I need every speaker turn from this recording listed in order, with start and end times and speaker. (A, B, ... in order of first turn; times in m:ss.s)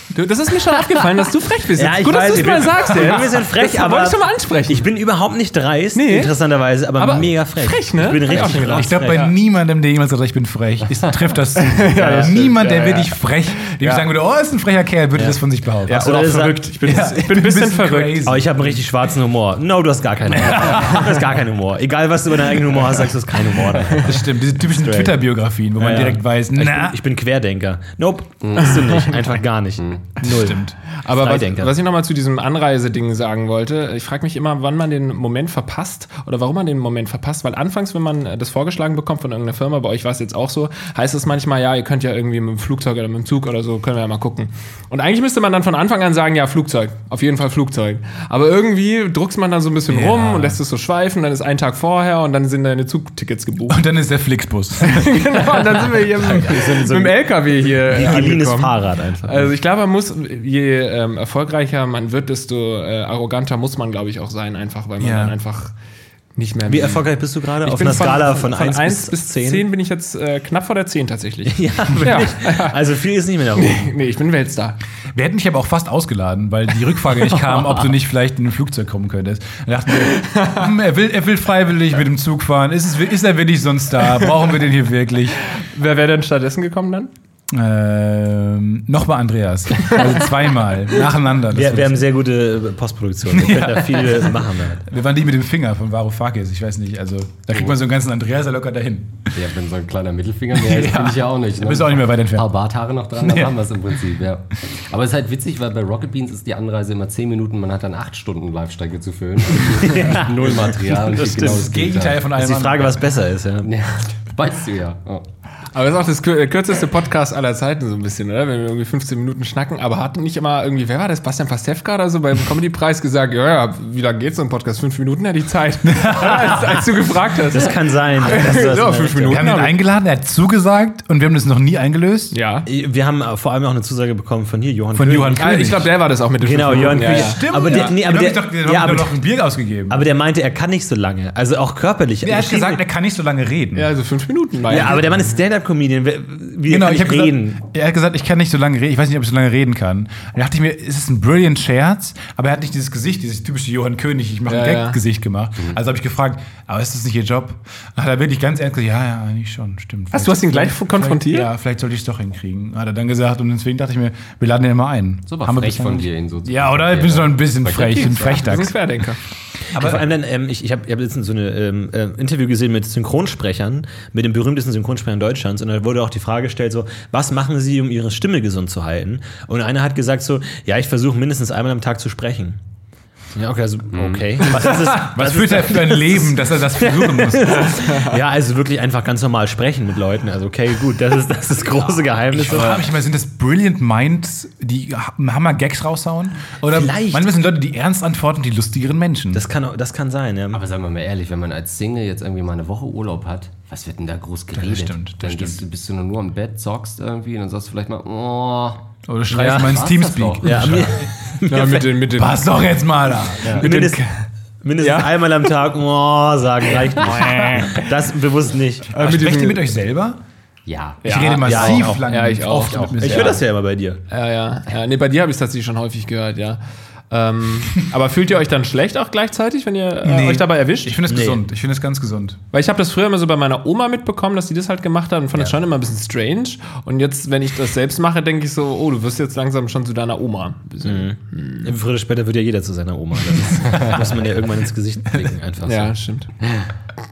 0:00.1-0:04.9 A
0:01.7-0:09.2 B
0:05.9-0:06.3 A
0:07.0-0:09.3 A
0:08.3-0:18.5 C
0:11.6-0:14.1 A
0:11.9-0:12.6 B
0:15.1-0:17.1 B
0:16.0-0:18.3 A
0:18.2-0:25.2 B
0:20.3-0:21.1 C
0:24.0-0:27.0 C
0:25.8-0:31.8 B
0:28.4-0:28.7 D
0:29.8-0:30.1 D
0:30.2-0:30.8 C
0:31.0-0:53.8 A
0:49.9-0:50.6 C
0:53.7-0:56.7 C
0:54.8-1:05.7 A
0:56.3-0:59.5 B
1:05.0-1:05.3 C
1:06.4-1:07.1 A
1:06.7-1:09.7 B
1:07.6-1:12.8 A
1:11.5-1:13.9 B
1:13.6-1:14.8 A
1:15.1-1:25.4 C
1:20.0-1:20.6 A
1:25.5-1:27.1 A
1:27.5-1:32.0 C
1:31.5-1:34.8 B
1:33.3-1:34.3 C
1:34.8-1:39.3 C
1:39.3-1:52.2 D
1:40.5-1:42.5 C
1:43.2-1:43.7 C
1:49.8-1:53.7 B
1:51.4-1:53.0 C
1:53.6-1:55.2 D
1:55.7-2:09.8 A
2:05.9-2:06.8 C
2:07.5-2:09.5 B
2:09.3-2:12.4 C
2:12.3-2:12.6 A
2:12.7-2:15.7 B
2:14.9-2:15.9 C
2:15.3-2:18.0 A
2:16.4-2:19.2 B
2:16.9-2:20.0 C
2:19.9-2:22.8 B
2:22.2-2:23.9 C
2:23.7-2:25.3 A
2:24.7-2:27.6 B
2:26.7-2:48.8 C
2:34.5-2:35.0 A
2:40.1-2:41.5 A
2:45.3-2:48.6 D
2:47.8-2:49.2 A
2:49.7-2:50.0 C
2:49.7-3:02.6 B
3:03.3-3:12.8 B
3:03.9-3:04.4 D
3:04.5-3:07.7 C
3:12.3-3:19.4 C
3:12.5-3:12.8 D
3:16.7-3:17.3 B
3:19.3-3:20.6 B
3:20.5-3:30.5 D
3:24.5-3:25.6 C
3:29.0-3:31.1 C
3:30.4-3:31.9 B
3:31.5-3:32.4 A
3:32.1-3:34.0 C
3:33.5-3:34.0 B
3:33.6-3:33.9 A
3:34.6-3:38.9 B
3:34.8-3:35.2 A
3:37.0-3:37.9 A
3:38.9-3:39.6 A
3:39.0-3:40.2 C
3:40.6-3:41.9 D
3:41.0-3:43.4 C
3:41.0-3:43.4 A
3:41.4-3:42.0 B
3:43.0-3:44.0 B
3:44.1-3:51.0 A
3:50.0-3:52.4 C
3:51.1-3:51.4 B
3:52.5-4:01.7 A
4:00.8-4:05.9 B
4:05.6-4:06.3 A